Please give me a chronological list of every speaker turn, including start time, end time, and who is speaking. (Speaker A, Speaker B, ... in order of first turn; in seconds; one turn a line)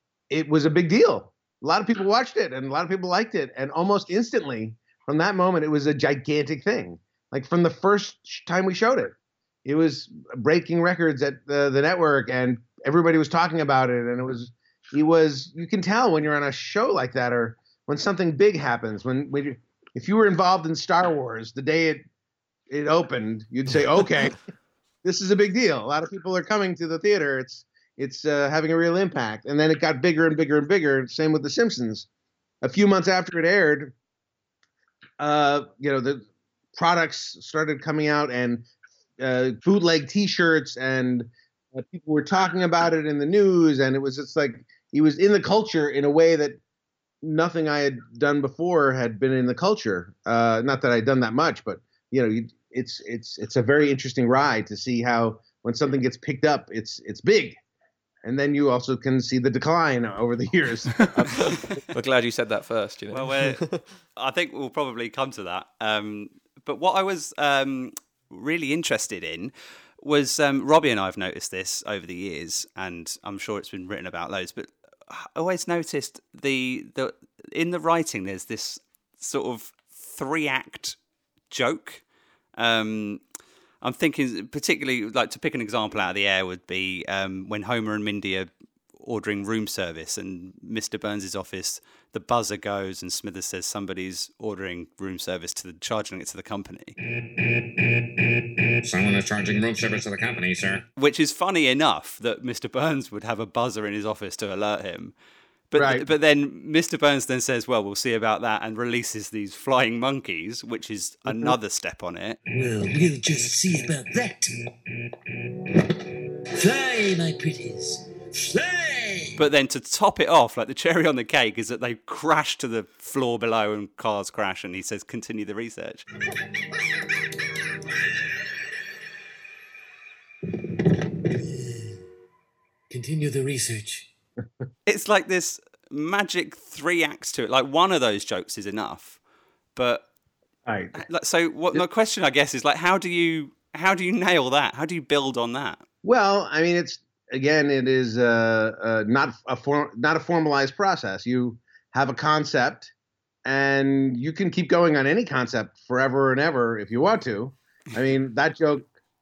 Speaker A: 0.3-22.1
Speaker A: 22.7-24.4
Speaker A: 25.0-32.1
Speaker A: 32.6-33.9
Speaker A: 35.2-38.6
Speaker A: 39.2-46.6
Speaker A: 47.2-57.6
Speaker A: 58.2-61.8
Speaker B: 61.3-63.8
Speaker C: 63.1-63.6
Speaker C: 64.1-81.0
Speaker C: 81.5-82.0
Speaker C: 82.6-83.2
Speaker C: 83.8-96.9
Speaker D: 98.8-100.8
Speaker C: 101.0-105.1
Speaker C: 105.7-112.4
Speaker A: 105.7-106.0
Speaker E: 112.5-114.5
Speaker E: 116.6-119.3
Speaker C: 119.4-126.0
Speaker E: 131.5-131.9
Speaker E: 132.9-134.1
Speaker C: 134.8-139.2
Speaker C: 139.7-140.1
Speaker A: 140.7-141.0
Speaker C: 140.9-145.8
Speaker A: 146.0-152.9
Speaker A: 153.4-158.8